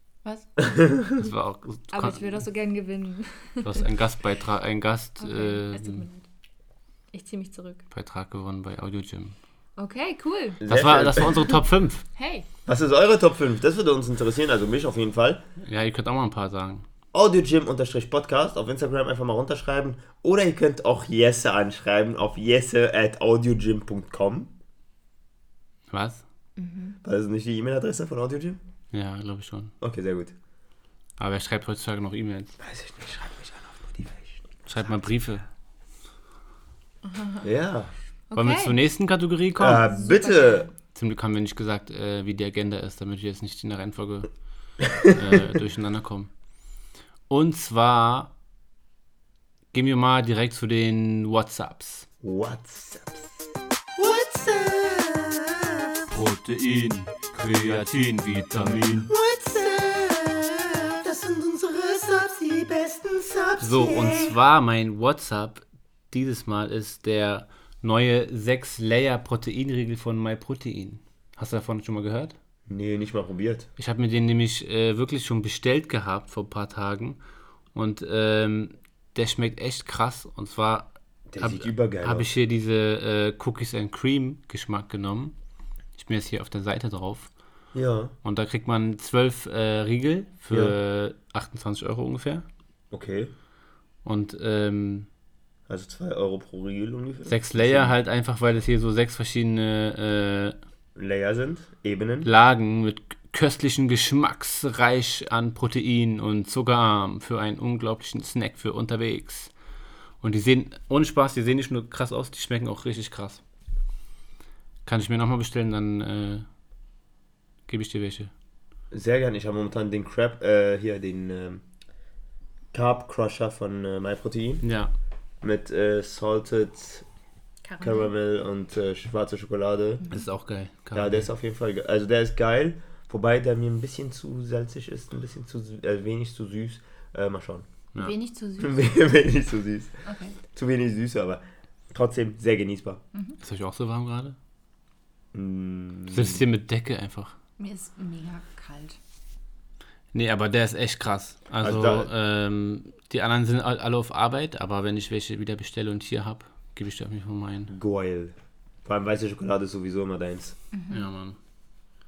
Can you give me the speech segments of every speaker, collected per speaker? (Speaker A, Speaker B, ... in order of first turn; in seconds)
Speaker A: 0.2-0.7, 1.9-3.9, 5.2-6.2, 7.1-7.8, 9.8-10.6, 12.2-12.5, 26.6-27.0, 37.0-37.5, 38.3-38.8, 39.7-40.7, 127.6-128.1, 138.0-138.9, 140.0-140.4, 147.6-149.0, 160.7-161.1
Speaker B: 0.7-1.1, 10.6-11.5, 12.7-15.4, 17.1-24.5, 27.0-28.6, 29.8-30.3, 32.6-34.4, 37.4-37.9, 39.6-40.7, 44.9-45.2, 52.2-53.3, 54.0-56.0, 59.1-64.3, 72.7-73.7, 81.3-82.3, 87.7-88.1, 92.9-93.3, 95.7-97.9, 101.0-102.3, 118.9-121.6, 122.7-124.6, 125.4-127.0, 127.8-130.1, 130.9-137.7, 138.6-139.9, 140.5-141.4, 141.9-143.0, 145.3-146.4, 151.6-152.1, 157.7-158.3, 158.8-160.6
Speaker C: 1.2-2.4, 3.6-6.0, 7.9-9.3, 10.7-12.0, 15.6-16.9, 25.9-26.2, 28.9-29.7, 31.2-32.5, 34.6-35.4, 38.3-39.8, 40.9-44.3, 45.0-46.3, 47.3-48.3, 49.7-52.1, 56.1-59.1, 63.6-72.3, 73.8-77.2, 77.7-85.3, 86.0-87.3, 88.2-92.4, 94.0-95.1, 97.2-100.6, 102.2-109.5, 110.2-113.4, 114.8-116.5, 117.7-118.3, 124.6-124.9, 130.1-131.3, 143.4-144.3, 146.1-147.3, 150.1-157.7, 160.9-161.4